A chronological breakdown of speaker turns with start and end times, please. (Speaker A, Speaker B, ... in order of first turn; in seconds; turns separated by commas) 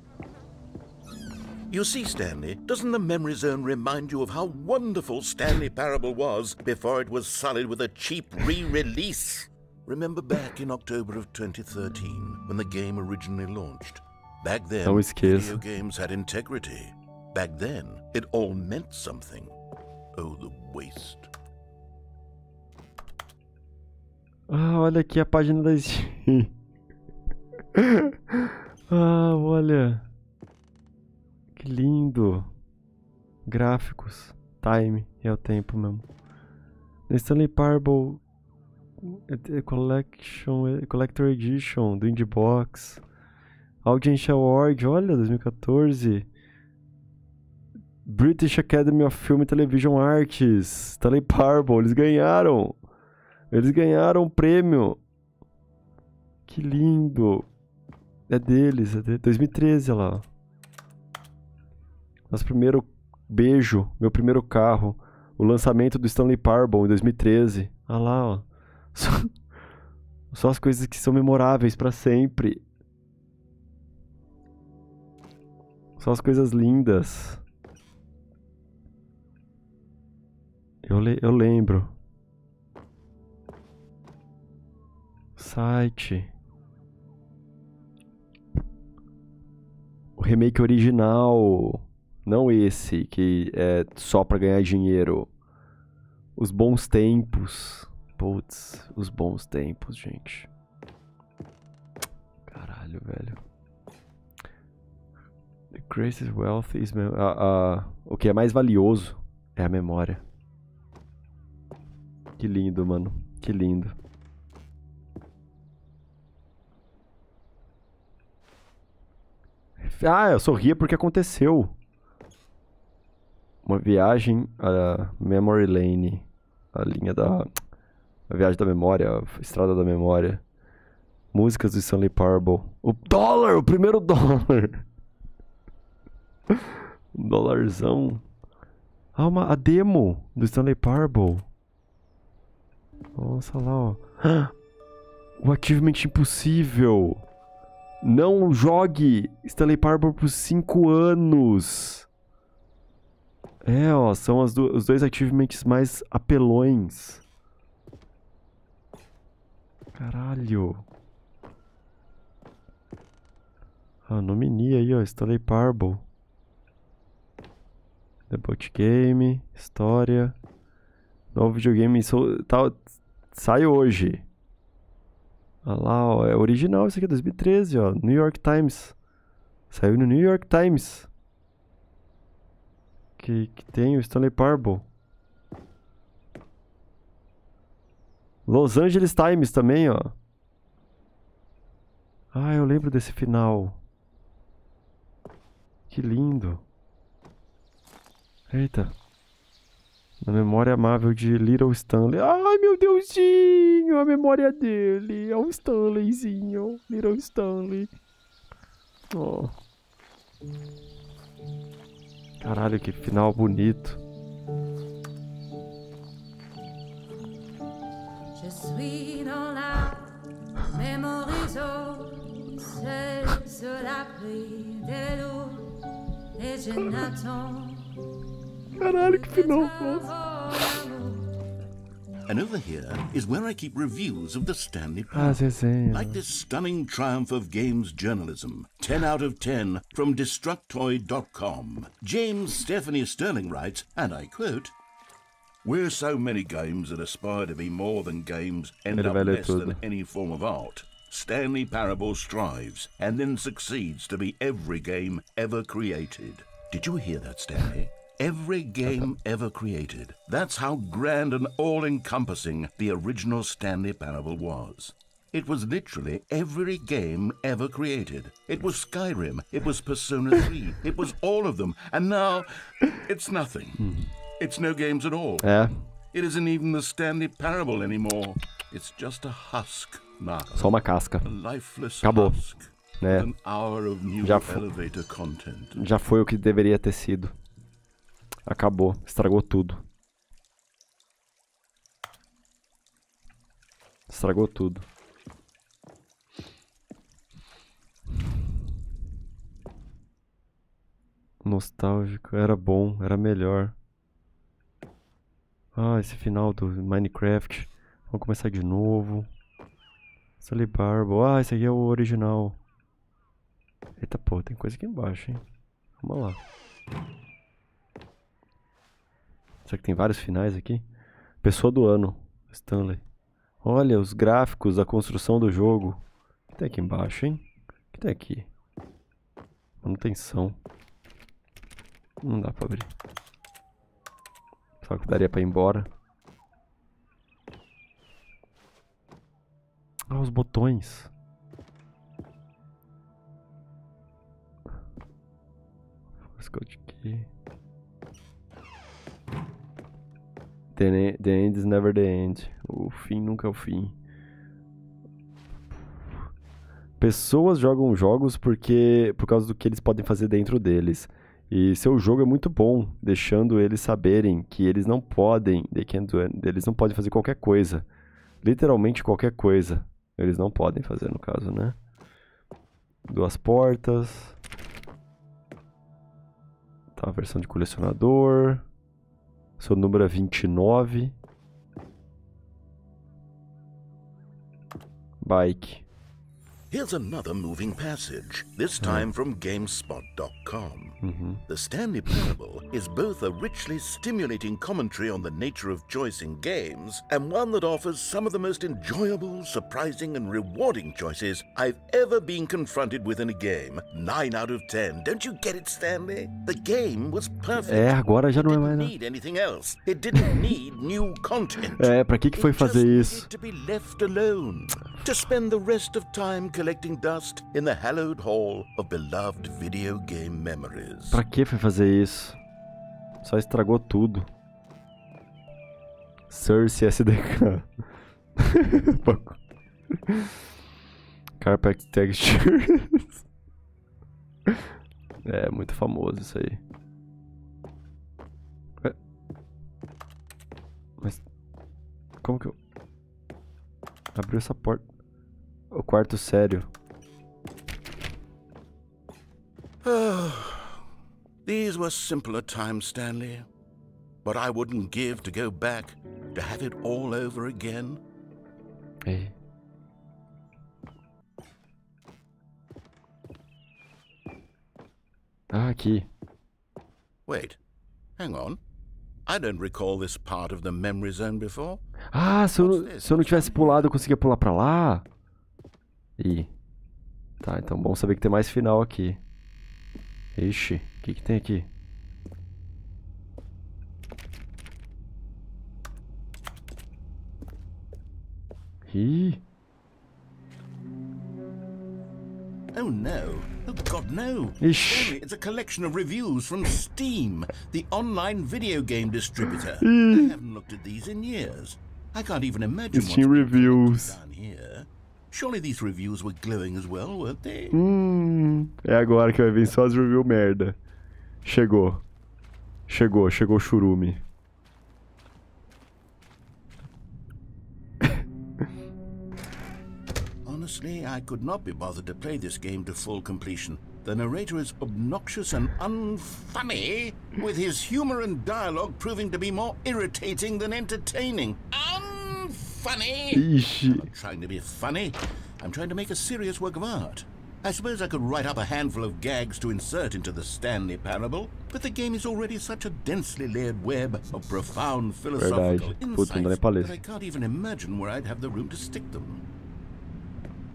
Speaker A: 1.7-19.5, Speaker B: 14.8-15.6, Speaker A: 20.1-21.3, Speaker B: 24.5-26.5, Speaker B: 27.7-30.0, Speaker B: 31.6-32.5, Speaker B: 33.5-36.0, Speaker B: 37.1-38.2, Speaker B: 39.0-43.0, Speaker B: 43.8-46.2, Speaker B: 48.0-52.8, Speaker B: 53.5-55.0, Speaker B: 56.5-57.5, Speaker B: 58.3-60.2, Speaker B: 62.3-69.3, Speaker B: 70.3-72.6, Speaker B: 76.0-77.4, Speaker B: 80.8-81.9, Speaker B: 85.4-86.3, Speaker B: 90.2-95.3, Speaker B: 96.4-100.5, Speaker B: 102.5-103.4, Speaker B: 105.7-110.2, Speaker B: 112.4-113.9, Speaker B: 119.8-121.7, Speaker B: 123.7-127.5, Speaker B: 128.3-130.4, Speaker B: 131.3-134.8, Speaker B: 137.1-138.2, Speaker B: 139.2-141.4, Speaker B: 143.2-144.5, Speaker B: 145.4-147.2, Speaker B: 148.0-152.1, Speaker B: 153.6-157.2, Speaker B: 159.9-160.8, Speaker B: 164.1-166.0, Speaker B: 168.3-170.3, Speaker B: 171.3-174.2, Speaker B: 175.6-178.9, Speaker B: 179.7-181.1, Speaker B: 183.2-184.8, Speaker B: 188.5-190.1, Speaker B: 192.3-193.8, Speaker B: 195.9-196.6, Speaker B: 198.5-198.9, Speaker B: 200.2-207.9, Speaker B: 209.1-209.5, Speaker B: 212.4-214.0, Speaker C: 218.3-228.1, Speaker C: 228.8-231.3, Speaker B: 228.8-230.1, Speaker A: 232.3-244.7, Speaker B: 235.1-236.2, Speaker A: 245.6-285.9, Speaker B: 248.9-249.8, Speaker B: 273.8-274.1, Speaker B: 275.4-275.7, Speaker B: 280.5-281.3, Speaker B: 282.0-282.4, Speaker B: 283.0-283.3, Speaker B: 284.2-284.6, Speaker B: 285.8-287.3, Speaker B: 288.4-289.8, Speaker B: 294.1-294.8, Speaker B: 301.4-303.7, Speaker B: 305.7-309.3, Speaker B: 310.4-312.6, Speaker B: 314.0-315.4, Speaker B: 316.0-316.4, Speaker B: 319.6-320.8, Speaker B: 321.4-323.0, Speaker B: 323.6-326.0, Speaker B: 326.5-328.5, Speaker B: 329.8-330.6, Speaker B: 332.2-332.9, Speaker B: 334.8-335.9, Speaker B: 340.1-341.1, Speaker B: 346.3-347.3, Speaker B: 350.8-353.9, Speaker B: 357.0-367.9, Speaker B: 368.4-371.8, Speaker B: 373.1-374.3, Speaker B: 376.9-378.6, Speaker B: 379.6-381.1, Speaker B: 385.2-385.9, Speaker A: 386.7-421.2, Speaker B: 388.8-389.1, Speaker B: 391.0-391.4, Speaker B: 407.6-408.9, Speaker B: 411.8-413.2, Speaker B: 421.1-422.4, Speaker B: 423.2-424.3, Speaker B: 426.3-427.7, Speaker B: 428.4-429.4, Speaker B: 431.4-433.2, Speaker B: 435.2-436.6, Speaker B: 442.2-442.6, Speaker B: 444.1-444.8, Speaker B: 445.7-446.7, Speaker A: 449.8-450.8, Speaker A: 451.4-453.5, Speaker A: 454.2-458.0, Speaker B: 459.0-459.3, Speaker B: 465.5-466.1, Speaker A: 467.3-467.6, Speaker A: 468.2-468.6, Speaker A: 469.2-471.8, Speaker B: 472.1-475.0, Speaker A: 472.6-473.9, Speaker B: 476.2-476.5, Speaker B: 477.4-479.2, Speaker B: 480.3-481.7, Speaker B: 488.9-489.4, Speaker A: 492.7-507.8, Speaker B: 494.6-495.1, Speaker B: 499.8-500.3, Speaker B: 502.9-504.2, Speaker B: 507.7-510.8, Speaker B: 511.4-512.0, Speaker B: 512.9-514.2, Speaker A: 520.4-549.4, Speaker B: 533.3-534.1, Speaker B: 545.3-547.0